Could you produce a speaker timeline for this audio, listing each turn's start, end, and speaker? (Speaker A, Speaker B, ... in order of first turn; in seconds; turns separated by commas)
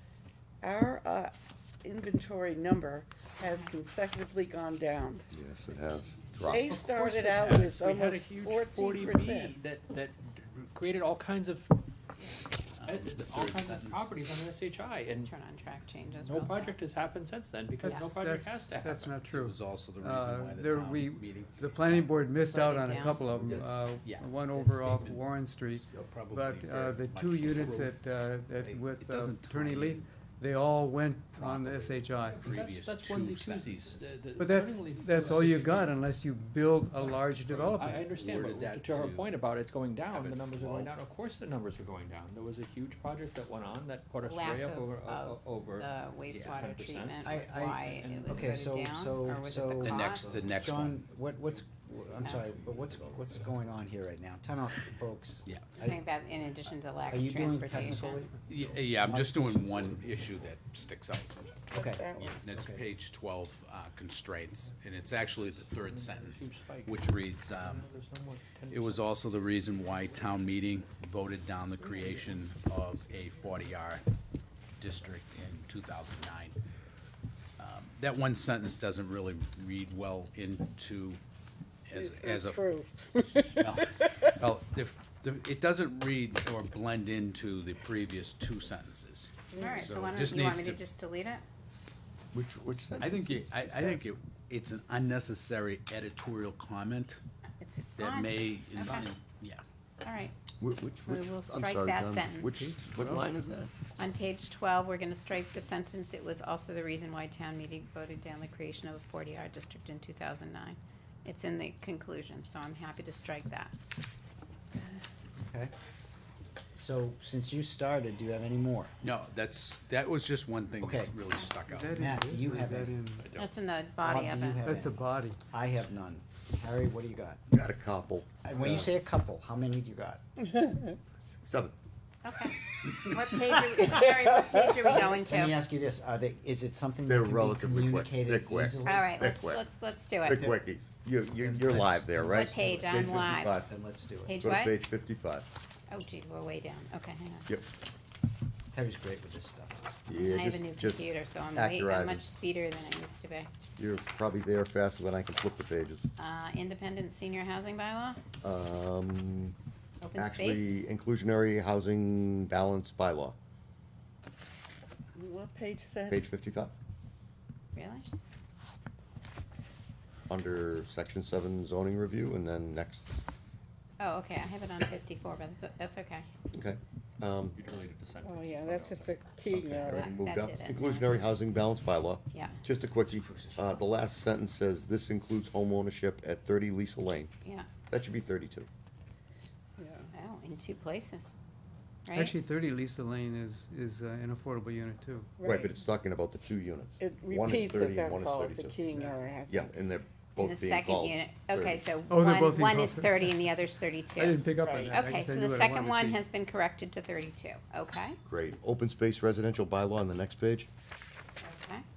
Speaker A: 0.6-5.3, Speaker B: 3.4-3.7, Speaker C: 5.3-6.7, Speaker A: 6.4-9.5, Speaker D: 6.5-11.9, Speaker E: 12.7-14.1, Speaker D: 12.8-15.3, Speaker B: 15.2-16.8, Speaker D: 16.2-19.1, Speaker F: 17.8-32.4, Speaker E: 19.2-22.2, Speaker B: 22.4-23.3, Speaker E: 23.5-28.0, Speaker E: 28.6-30.1, Speaker E: 31.4-34.1, Speaker D: 32.2-36.0, Speaker F: 34.4-38.1, Speaker D: 37.4-47.2, Speaker E: 38.0-39.3, Speaker E: 40.1-40.9, Speaker B: 44.2-50.3, Speaker G: 47.2-56.0, Speaker D: 47.8-48.5, Speaker E: 49.8-51.0, Speaker B: 55.8-58.3, Speaker G: 57.1-60.5, Speaker E: 58.5-67.9, Speaker A: 61.7-62.4, Speaker G: 61.7-62.8, Speaker D: 65.4-69.2, Speaker E: 68.7-74.0, Speaker D: 69.8-70.3, Speaker D: 71.8-72.4, Speaker E: 74.8-76.6, Speaker E: 77.6-81.2, Speaker E: 81.9-82.6, Speaker A: 81.9-84.3, Speaker E: 83.6-90.8, Speaker B: 89.5-91.4, Speaker C: 92.3-94.0, Speaker E: 93.0-97.2, Speaker B: 97.6-99.1, Speaker E: 98.0-99.6, Speaker B: 100.0-100.4, Speaker C: 100.6-103.7, Speaker B: 101.0-102.8, Speaker B: 104.0-113.7, Speaker G: 115.4-115.7, Speaker G: 116.7-118.9, Speaker E: 119.0-122.1, Speaker G: 120.8-121.1, Speaker F: 121.7-123.3, Speaker G: 121.9-123.0, Speaker E: 123.2-123.5, Speaker B: 123.3-124.6, Speaker G: 124.0-127.4, Speaker F: 124.7-125.4, Speaker C: 127.5-128.9, Speaker G: 128.4-130.2, Speaker C: 131.4-131.7, Speaker B: 132.2-135.6, Speaker G: 134.9-139.2, Speaker C: 137.1-139.7, Speaker B: 138.8-140.4, Speaker C: 140.2-143.7, Speaker G: 140.3-140.6, Speaker G: 141.4-144.5, Speaker B: 142.2-143.5, Speaker B: 144.2-144.8, Speaker C: 144.4-145.5, Speaker B: 145.9-147.5, Speaker G: 148.7-150.0, Speaker C: 150.1-152.2, Speaker B: 150.1-153.5, Speaker C: 153.8-156.1, Speaker B: 156.2-158.2, Speaker C: 158.4-159.5, Speaker B: 160.0-160.8, Speaker C: 160.1-163.3, Speaker A: 165.1-166.2, Speaker C: 166.1-166.7, Speaker B: 167.7-168.1, Speaker C: 170.3-173.2, Speaker B: 174.0-176.2, Speaker C: 176.5-177.6, Speaker D: 177.5-179.3, Speaker A: 178.3-180.0, Speaker C: 179.6-187.3, Speaker B: 179.8-181.3, Speaker B: 182.3-182.6, Speaker G: 183.0-183.8, Speaker B: 187.4-187.8, Speaker C: 187.9-188.7, Speaker A: 189.8-190.1, Speaker B: 190.1-191.3, Speaker B: 192.1-192.3, Speaker F: 192.1-195.3, Speaker A: 195.4-195.7, Speaker C: 195.4-198.8, Speaker A: 197.0-199.7, Speaker C: 199.5-201.8, Speaker B: 200.3-208.2, Speaker F: 202.1-203.4, Speaker F: 204.2-206.2, Speaker A: 204.6-204.9, Speaker C: 208.2-210.7, Speaker B: 211.4-211.8